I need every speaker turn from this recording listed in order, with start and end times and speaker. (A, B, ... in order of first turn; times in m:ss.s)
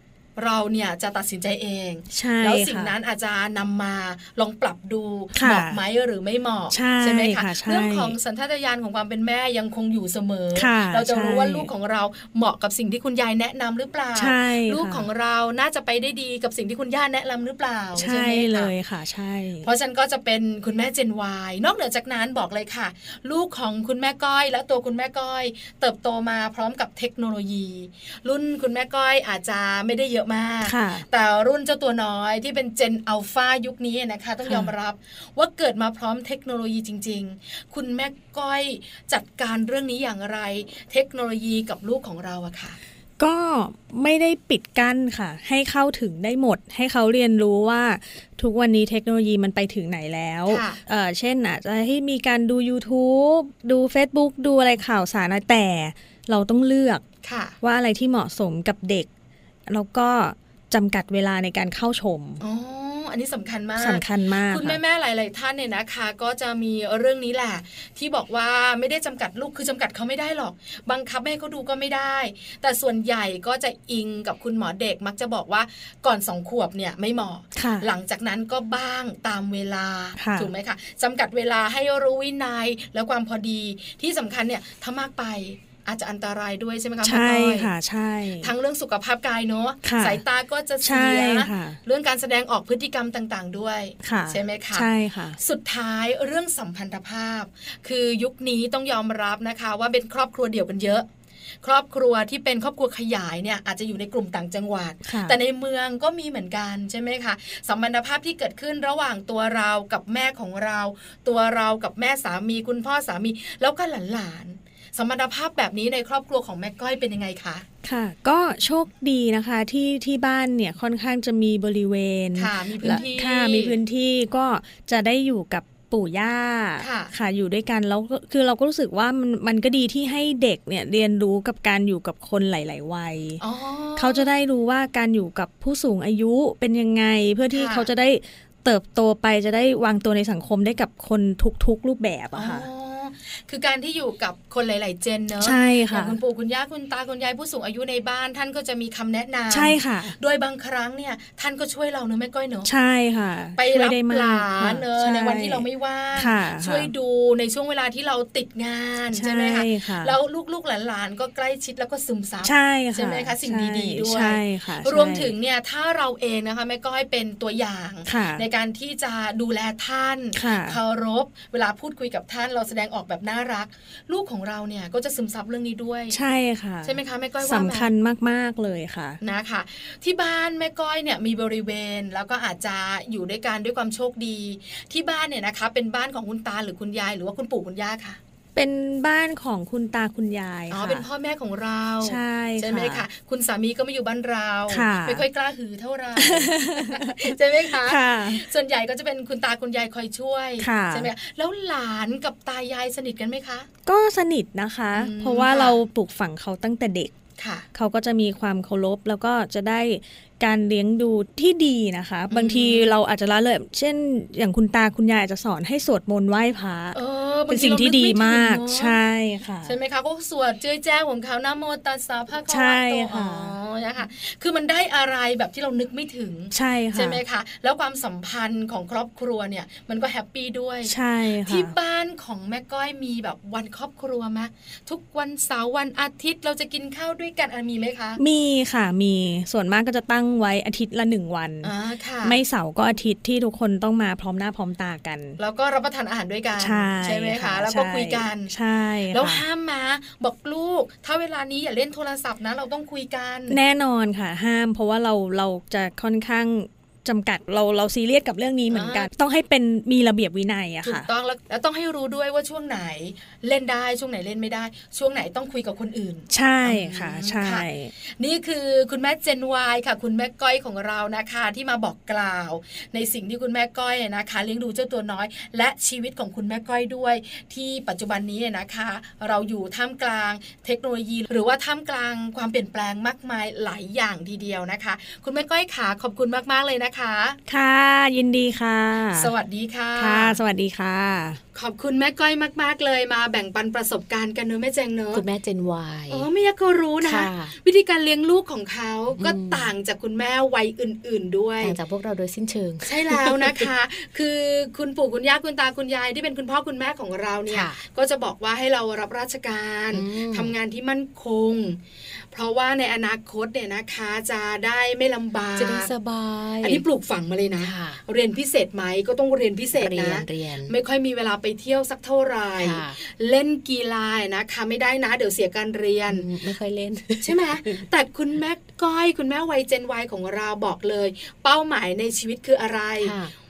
0:00.4-0:18.7 A
0:02.1-0:02.9 B
0:05.4-0:05.8 B
0:06.7-0:08.2 B
0:10.6-0:11.7 B
0:14.2-0:15.1 B
0:18.0-0:19.7 B
0:19.6-0:42.8 A
0:30.6-0:31.1 B
0:34.4-0:34.7 B
0:43.2-0:57.0 B
0:50.5-0:50.8 A
0:57.2-0:57.6 A
0:57.6-0:59.1 B
0:59.7-1:02.4 B
1:02.4-1:27.7 A
1:03.8-1:04.8 B
1:17.6-1:17.9 B
1:20.2-1:20.5 B
1:27.0-1:28.5 B
1:28.4-1:34.9 A
1:29.8-1:30.2 B
1:30.8-1:31.8 B
1:34.0-1:35.4 B
1:35.4-1:41.1 A
1:41.6-1:57.6 A
1:45.0-1:45.4 B
1:57.8-2:13.4 B
2:02.4-2:03.8 A
2:06.8-2:07.1 A
2:13.4-2:14.3 A
2:14.0-2:22.7 B
2:17.5-2:17.9 A
2:22.3-2:32.7 A
2:25.4-2:26.2 B
2:29.5-2:30.2 B
2:32.6-2:35.6 B
2:33.6-2:56.2 A
2:36.2-2:36.9 B
2:39.1-2:40.2 B
2:42.4-2:45.3 B
2:48.1-2:48.4 B
2:50.4-2:50.8 B
2:56.1-2:59.2 B
2:56.8-2:57.9 A
2:59.2-3:08.2 A
3:08.6-3:11.1 B
3:10.7-3:23.7 A
3:12.0-3:13.0 B
3:14.7-3:15.2 B
3:16.2-3:18.4 B
3:20.6-3:21.1 B
3:23.9-3:27.1 B
3:24.9-3:25.8 A
3:27.4-3:27.6 A
3:27.7-3:37.0 B
3:32.3-3:32.9 A
3:36.9-3:39.0 A
3:37.5-3:39.8 B
3:39.6-3:50.9 A
3:42.5-3:43.6 B
3:46.5-3:47.2 B
3:50.9-3:51.7 B
3:51.5-3:58.2 A
3:58.2-4:01.7 B
4:01.6-4:02.4 A
4:02.2-4:05.4 B
4:05.4-4:08.5 A
4:06.6-4:09.4 B
4:09.1-4:13.6 A
4:13.5-4:21.1 B
4:18.7-4:19.1 A
4:20.8-4:27.7 A
4:26.3-4:27.9 B
4:28.2-4:47.4 A
4:47.5-4:49.3 B
4:49.2-4:50.4 A
4:50.0-4:51.4 B
4:51.5-4:55.2 A
4:55.1-4:56.3 C
4:56.1-5:01.8 A
4:57.0-4:57.6 C
4:59.2-4:59.7 C
5:01.6-5:03.7 C
5:02.8-5:11.8 A
5:07.5-5:07.8 C
5:09.9-5:10.5 C
5:12.3-5:15.9 A
5:15.6-5:16.8 C
5:16.6-5:26.3 A
5:17.6-5:18.0 C
5:19.8-5:20.8 C
5:22.6-5:23.0 C
5:26.1-5:27.9 C
5:27.2-5:33.2 A
5:33.0-5:33.3 C